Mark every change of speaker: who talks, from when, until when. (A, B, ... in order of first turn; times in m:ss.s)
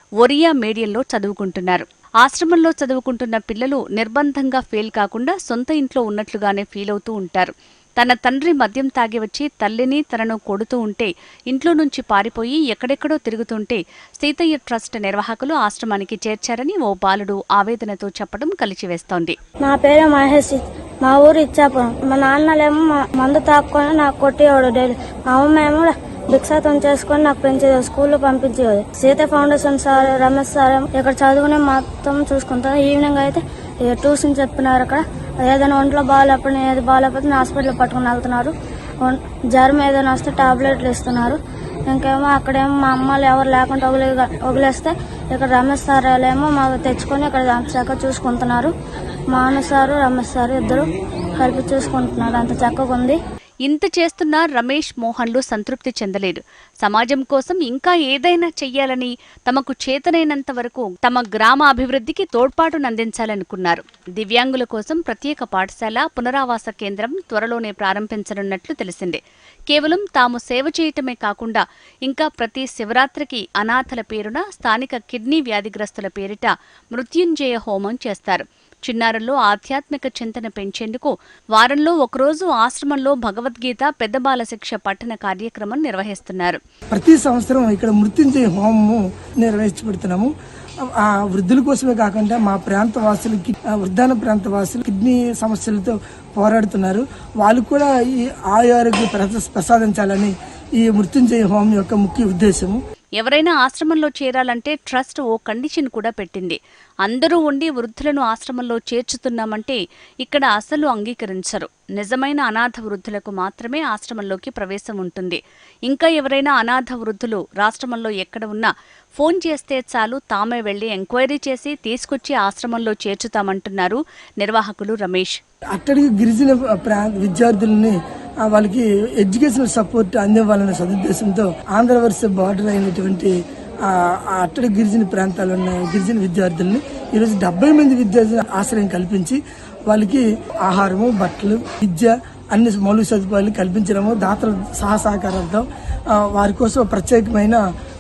0:00.2-0:19.4 A
0:19.6-0:48.7 B
0:49.3-0:50.9 B
0:51.4-0:53.2 B
0:53.6-1:26.6 A
1:26.9-1:30.3 C
1:31.0-1:42.8 C
1:43.2-2:05.4 A
2:05.7-2:13.3 C
2:13.9-2:25.6 C
2:26.3-2:27.6 C